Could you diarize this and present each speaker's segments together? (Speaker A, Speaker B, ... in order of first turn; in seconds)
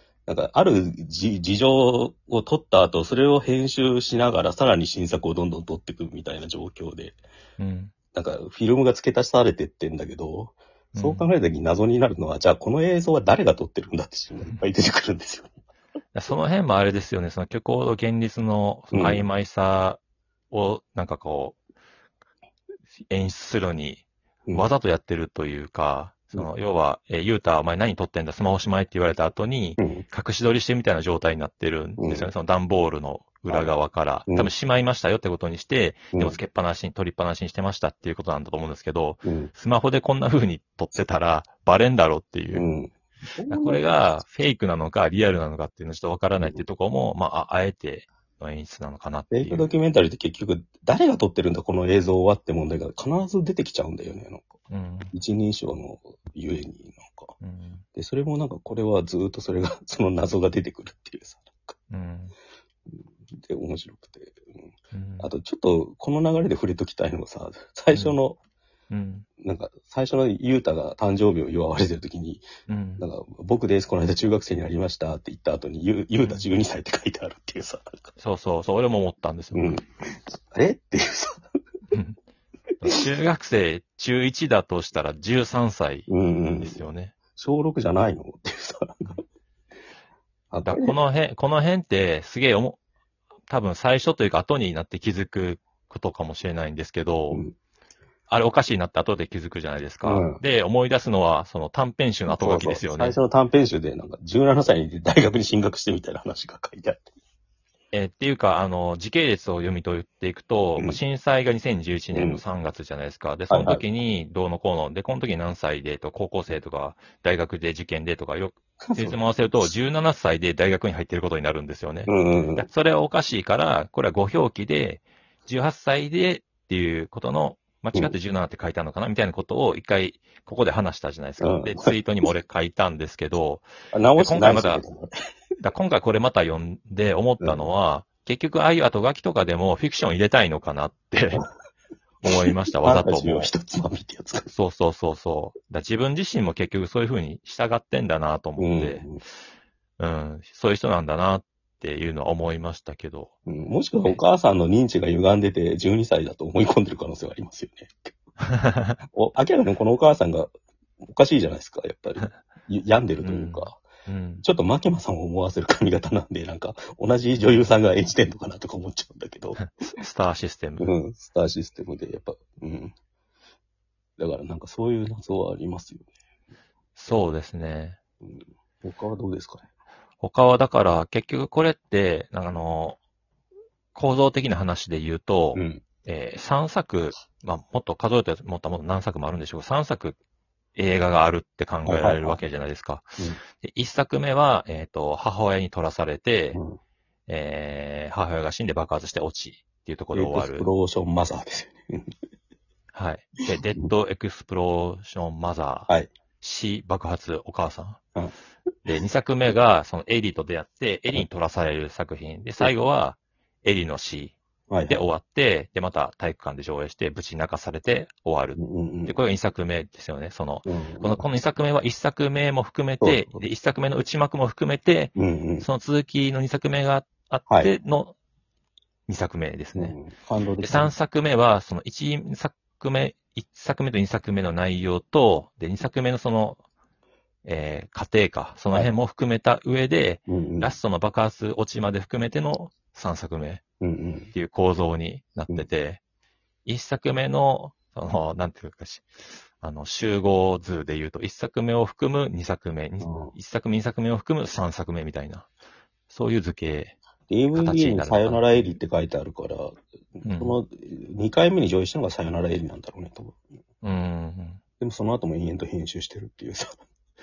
Speaker A: 0.3-7.2, 8.1-15.5, 18.9-19.3, 29.8-30.0, 32.0-32.3, 36.1-36.4, 39.2-39.5, 42.5-43.8, 49.3-54.5, 55.1-57.3, 57.9-61.7, 62.9-64.7, 65.2-68.4, 69.4-72.5, 73.0-78.1, 79.5-81.5, 86.1-86.8, 87.3-89.2, 90.5-90.9, 100.0-100.4, 102.3-107.1, 112.1-112.4, 113.5-113.8, 118.8-119.7, 122.1-122.7, 131.4-132.0, 133.9-135.1, 137.4-137.7, 142.2-144.5, 148.6-149.2, 153.4-158.2, 159.1-163.8, 164.4-169.6, 170.8-172.9, 174.2-176.1, 178.2-179.7, 185.5-185.8, 191.8-192.4, 200.1-202.1, 214.7-215.1, 218.5-219.2, 220.6-221.4, 223.0-223.4, 225.2-225.7, 227.5-227.7, 229.7-230.9, 240.3-240.8, 243.8-244.3, 253.0-253.3, 257.3-263.4, 264.8-266.8
Speaker B: 7.6-7.9, 10.9-11.2, 16.1-20.0, 20.5-21.6, 23.1-42.6, 43.5-49.7, 54.7-55.1, 57.4-57.8, 61.9-62.3, 64.9-65.3, 68.9-69.2, 72.7-73.0, 78.2-79.8, 81.9-82.2, 82.8-87.1, 90.7-92.8, 93.5-97.4, 98.3-103.2, 107.9-134.8, 135.6-141.4, 142.2-143.5, 144.5-149.1, 150.0-153.3, 158.4-158.9, 163.2-164.4, 169.6-170.9, 177.0-178.0, 180.2-183.0, 183.9-190.2, 190.8-193.0, 193.6-196.6, 197.3-200.7, 202.9-205.9, 206.4-208.0, 208.8-214.4, 214.9-228.1, 229.1-229.9, 230.6-236.6, 237.4-243.6, 244.3-246.0, 246.7-249.1, 249.6-255.5, 256.1-256.9, 257.5-258.5, 260.2-260.6, 263.8-264.6